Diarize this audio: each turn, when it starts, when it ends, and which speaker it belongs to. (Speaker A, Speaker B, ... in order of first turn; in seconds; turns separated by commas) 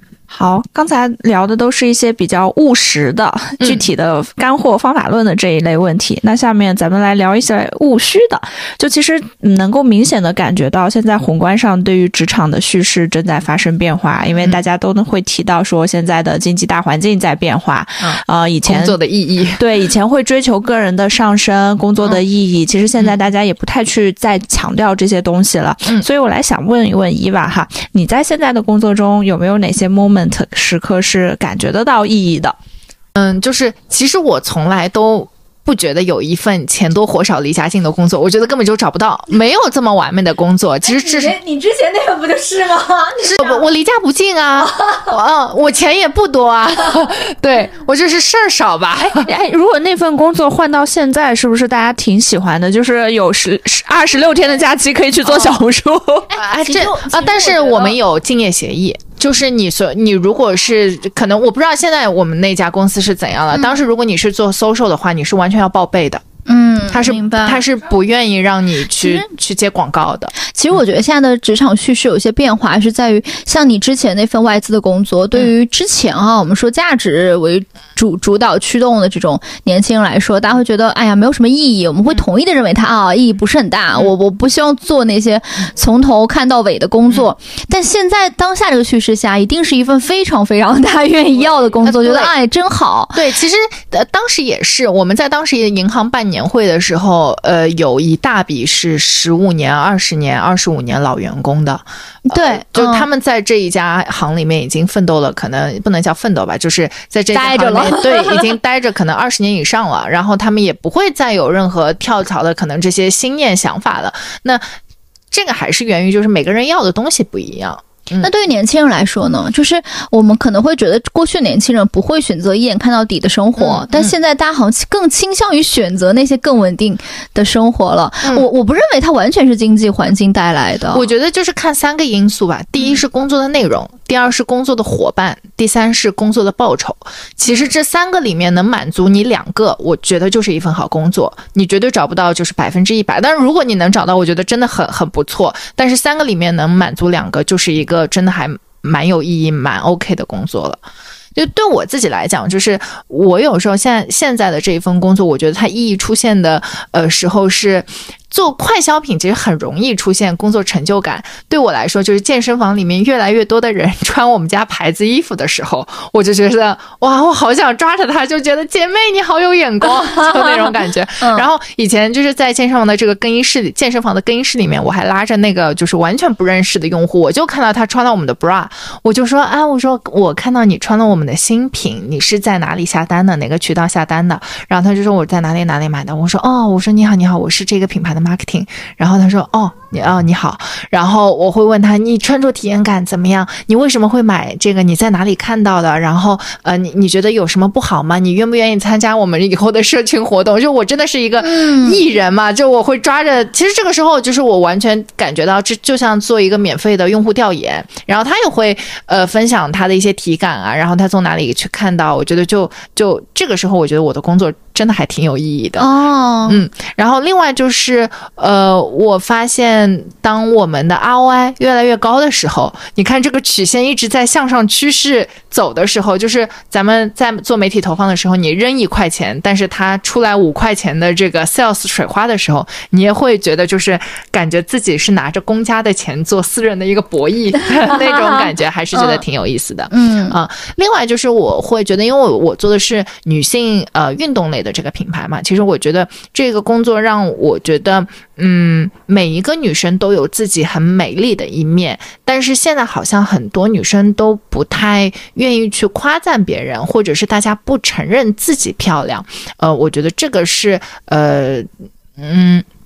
Speaker A: 0.3-19.0, Speaker B: 3.6-3.9, Speaker B: 18.0-19.6, Speaker A: 19.6-32.6, Speaker B: 33.1-41.4, Speaker C: 40.8-43.6, Speaker B: 43.2-49.3, Speaker C: 44.6-45.1, Speaker A: 49.2-56.3, Speaker B: 56.3-66.2, Speaker C: 56.6-58.0, Speaker C: 63.5-63.8, Speaker C: 66.5-67.6, Speaker B: 66.9-70.3, Speaker C: 68.9-69.3, Speaker C: 70.4-93.2, Speaker B: 91.8-92.3, Speaker B: 93.2-114.6, Speaker C: 102.3-103.1, Speaker C: 107.3-108.5, Speaker B: 115.3-118.3, Speaker C: 118.2-131.1, Speaker B: 123.6-124.2, Speaker B: 130.9-150.8, Speaker B: 151.3-215.9, Speaker C: 169.8-171.5, Speaker C: 201.4-202.0, Speaker C: 215.8-216.6, Speaker B: 216.5-262.7, Speaker C: 237.6-239.2, Speaker C: 239.9-240.4